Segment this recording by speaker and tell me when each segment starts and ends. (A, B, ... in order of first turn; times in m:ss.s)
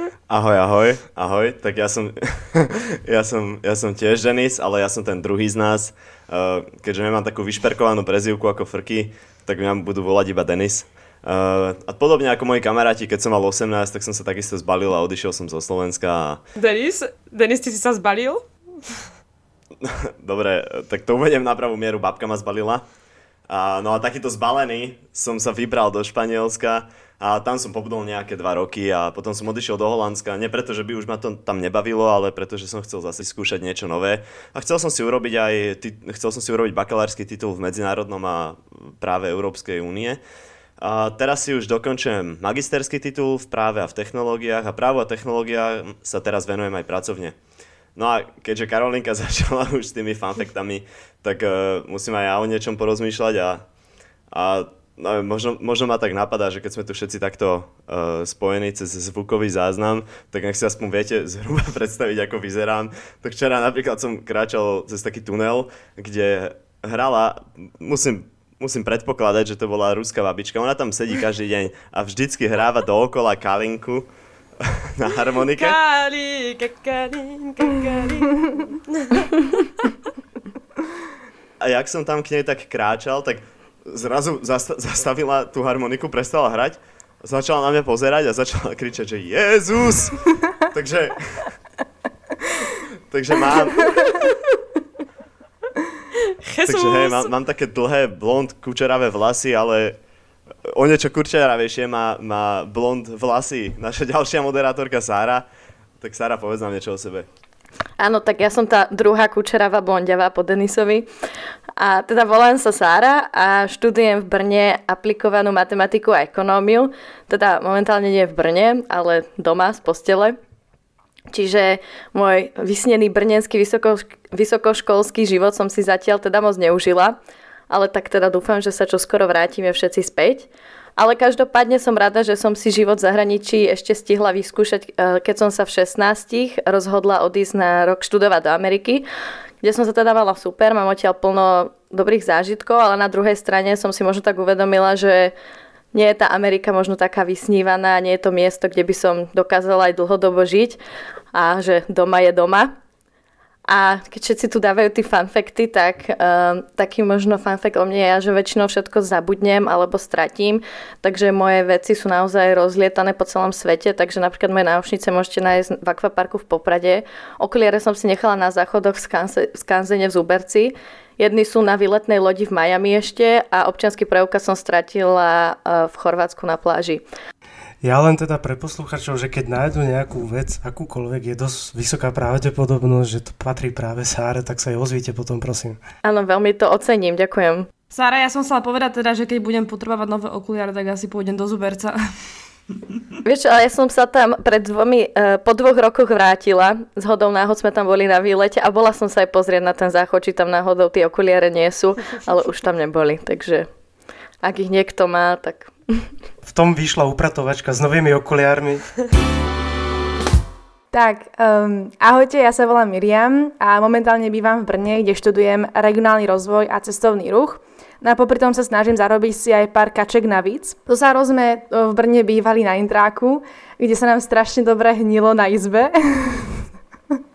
0:00.3-0:16.4 A
0:16.6-0:19.0 B
0:19.8-0:22.8 A
0:23.5-0:40.2 A
0:40.8-0:47.3 A
0:48.0-0:53.6 A
0:54.3-1:14.1 A
1:14.6-1:15.8 A
1:15.5-1:19.9 B
1:21.6-1:31.6 A
1:33.1-1:34.0 A
1:36.1-1:37.3 B
1:36.6-1:40.0 A
1:40.7-1:45.4 A
1:46.0-1:47.2 A
1:48.0-1:51.1 C
1:51.8-2:00.4 C
2:01.3-2:07.2 C
2:07.7-2:19.0 C
2:19.6-2:25.3 C
2:25.9-2:30.8 C
2:31.3-2:32.7 C
2:33.7-2:57.0 C
2:57.8-3:05.8 D
3:06.0-3:07.7 C
3:07.9-3:12.0 E
3:13.2-3:23.7 C
3:24.4-3:26.1 C
3:26.4-3:28.9 D
3:30.9-3:46.6 F